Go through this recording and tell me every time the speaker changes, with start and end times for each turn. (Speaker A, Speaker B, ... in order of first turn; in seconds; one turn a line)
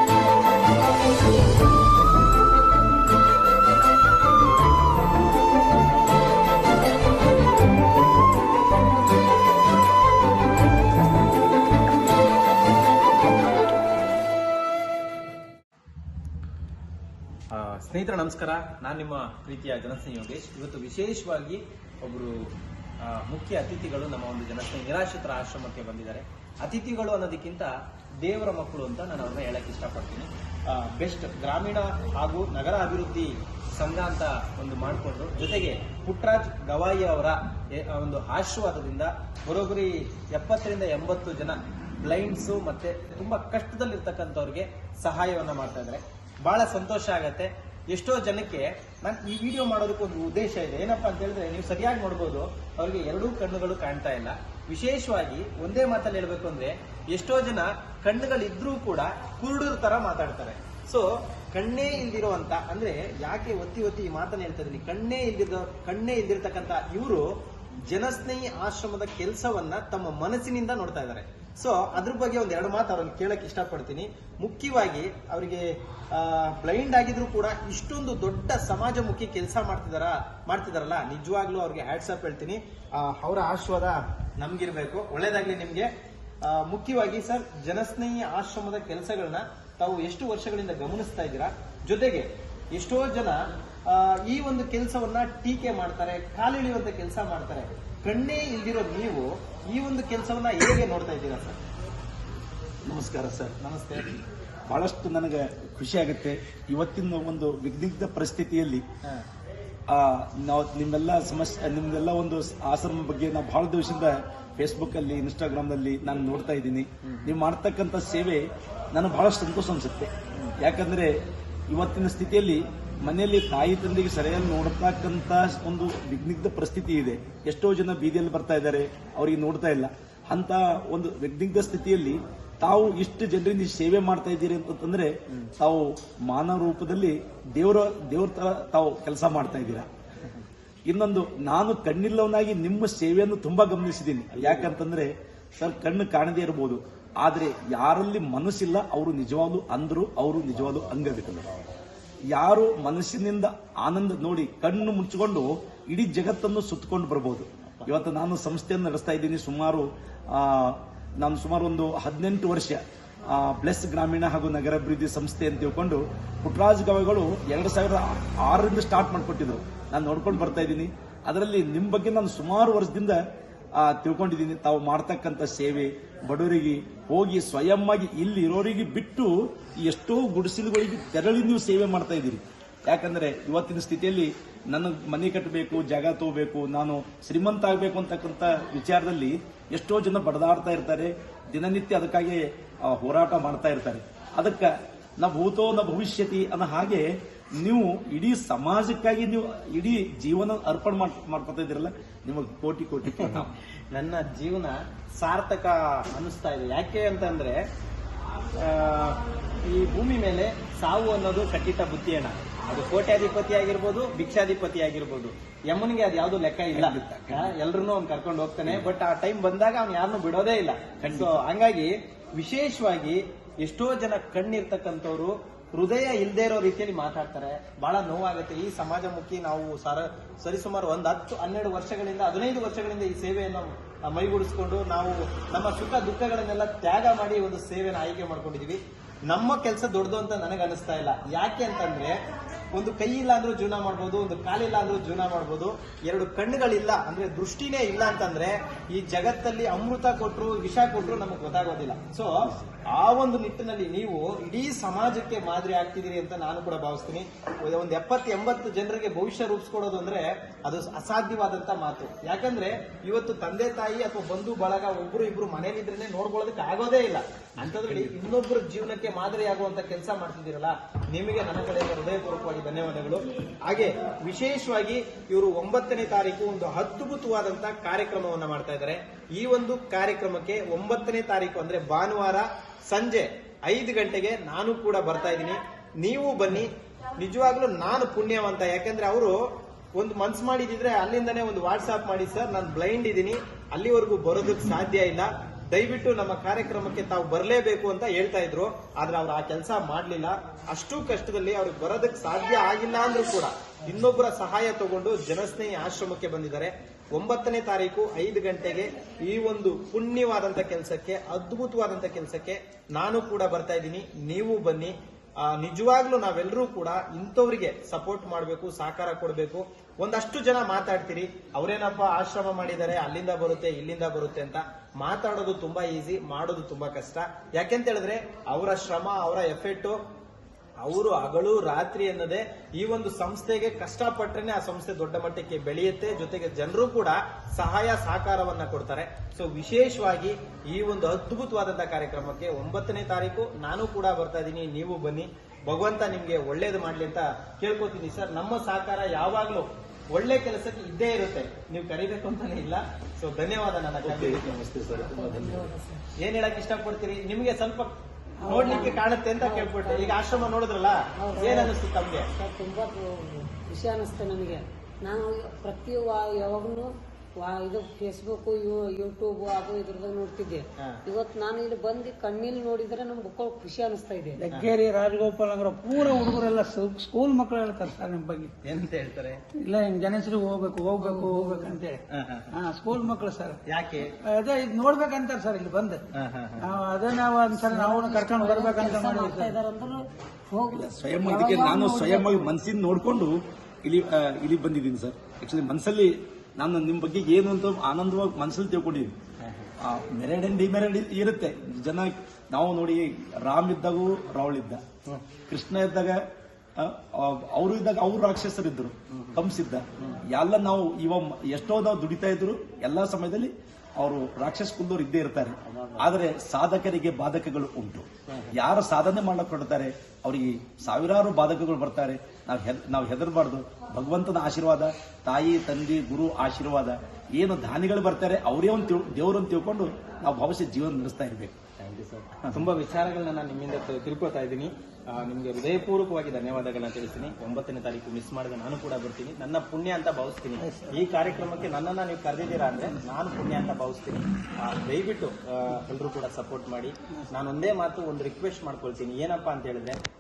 Speaker A: 17.5-22.5
Speaker A: 23.0-85.9
Speaker A: 86.4-101.6
Speaker B: 102.8-108.8
Speaker A: 103.6-104.2
Speaker B: 109.9-121.1
Speaker A: 117.0-117.3
Speaker B: 121.7-139.9
Speaker B: 140.9-151.7
Speaker A: 144.3-144.8
Speaker B: 152.3-173.2
Speaker B: 173.7-203.5
Speaker A: 203.1-207.6
Speaker A: 208.5-242.2
Speaker B: 216.7-217.6
Speaker B: 221.0-221.4
Speaker A: 242.7-289.4
Speaker B: 267.6-268.1
Speaker A: 289.9-330.0
Speaker A: 330.8-354.6
Speaker B: 354.0-355.7
Speaker C: 355.0-356.0
Speaker A: 356.2-362.3
Speaker D: 358.4-358.9
Speaker C: 358.5-360.5
Speaker C: 361.1-361.7
Speaker C: 362.3-374.4
Speaker D: 374.4-378.5
Speaker A: 378.6-379.4
Speaker D: 379.5-383.6
Speaker A: 382.1-382.5
Speaker A: 383.6-384.1
Speaker D: 384.2-386.0
Speaker A: 386.1-386.7
Speaker D: 386.6-389.5
Speaker C: 387.6-392.5
Speaker B: 390.7-399.1
Speaker A: 399.4-399.7
Speaker B: 399.8-404.8
Speaker B: 405.5-406.2
Speaker B: 406.8-431.6
Speaker A: 409.1-409.4
Speaker A: 415.6-416.1
Speaker A: 418.3-418.6
Speaker A: 431.8-450.0
Speaker D: 440.6-441.0